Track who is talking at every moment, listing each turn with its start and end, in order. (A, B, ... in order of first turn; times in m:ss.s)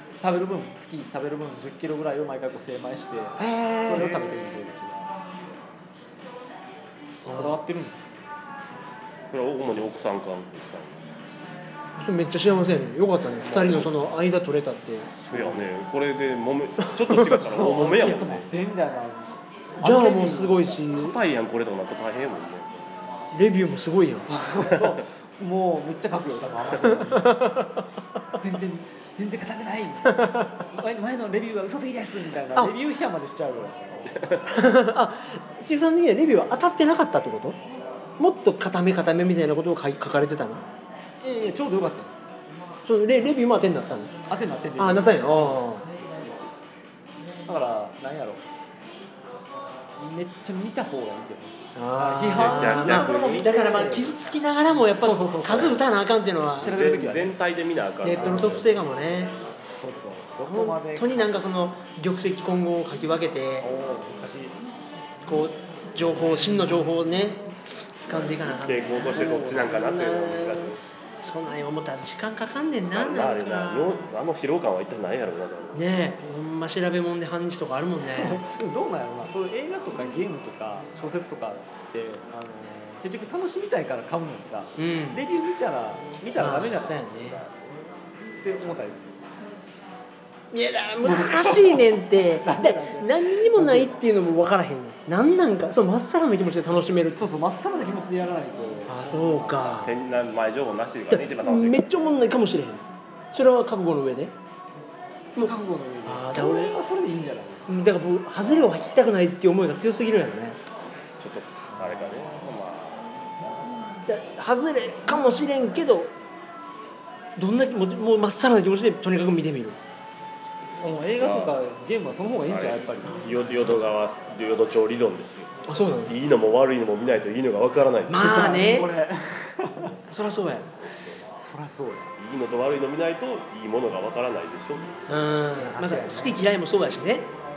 0:00.2-0:05.1 A
0:03.4-0:04.2 B
0:07.3-0:07.6 B
0:07.3-0:08.1 A
0:09.3-0:11.0 C
0:09.6-0:09.9 A
0:12.0-0:15.2 B
0:13.4-0:14.2 C
0:15.3-0:18.5 C
0:15.3-0:15.6 A
0:16.8-0:17.2 B
0:17.4-0:20.8 A
0:19.8-0:21.2 B
0:20.9-0:23.0 C
0:23.3-0:24.3 B
0:24.3-0:27.4 A
0:24.4-0:24.9 C
0:27.1-0:27.7 B
0:28.4-0:34.5 A
0:30.1-0:30.6 B
0:34.1-0:34.5 C
0:34.5-0:37.6 B
0:38.2-0:40.6 B
0:41.2-0:42.2 A
0:42.8-0:44.2 B
0:44.3-0:45.6 A
0:44.8-0:45.9 B
0:47.5-0:48.4 A
0:50.0-0:54.2 A
0:51.8-0:56.7 B
0:52.4-0:53.5 C
0:55.0-0:55.8 A
0:56.5-0:57.4 A
0:56.6-0:58.7 C
0:58.0-0:59.4 B
0:58.2-0:58.7 A
0:59.7-1:01.5 A
1:00.5-1:03.7 B
1:03.6-1:04.6 A
1:05.2-1:14.0 B
1:08.1-1:10.8 C
1:09.0-1:09.9 A
1:12.9-1:15.9 C
1:15.8-1:18.4 B
1:18.2-1:27.0 A
1:24.8-1:25.2 B
1:26.4-1:27.4 B
1:28.2-1:29.2 A
1:30.5-1:37.3 B
1:31.0-1:34.0 A
1:37.2-1:39.8 A
1:38.9-1:40.0 B
1:39.8-1:42.0 C
1:41.1-1:44.3 B
1:45.3-1:47.7 A
1:45.4-1:46.8 B
1:47.7-1:50.6 B
1:51.2-1:53.1 C
1:54.1-1:56.1 B
1:57.4-1:59.8 B
2:00.8-2:03.8 A
2:01.2-2:01.6 C
2:02.5-2:05.5 C
2:05.7-2:06.2 B
2:06.1-2:08.5 C
2:08.1-2:08.9 B
2:08.2-2:10.0 A
2:10.1-2:10.7 B
2:10.8-2:11.2 C
2:11.2-2:12.1 A
2:12.2-2:15.0 C
2:15.1-2:17.3 B
2:15.6-2:16.4 A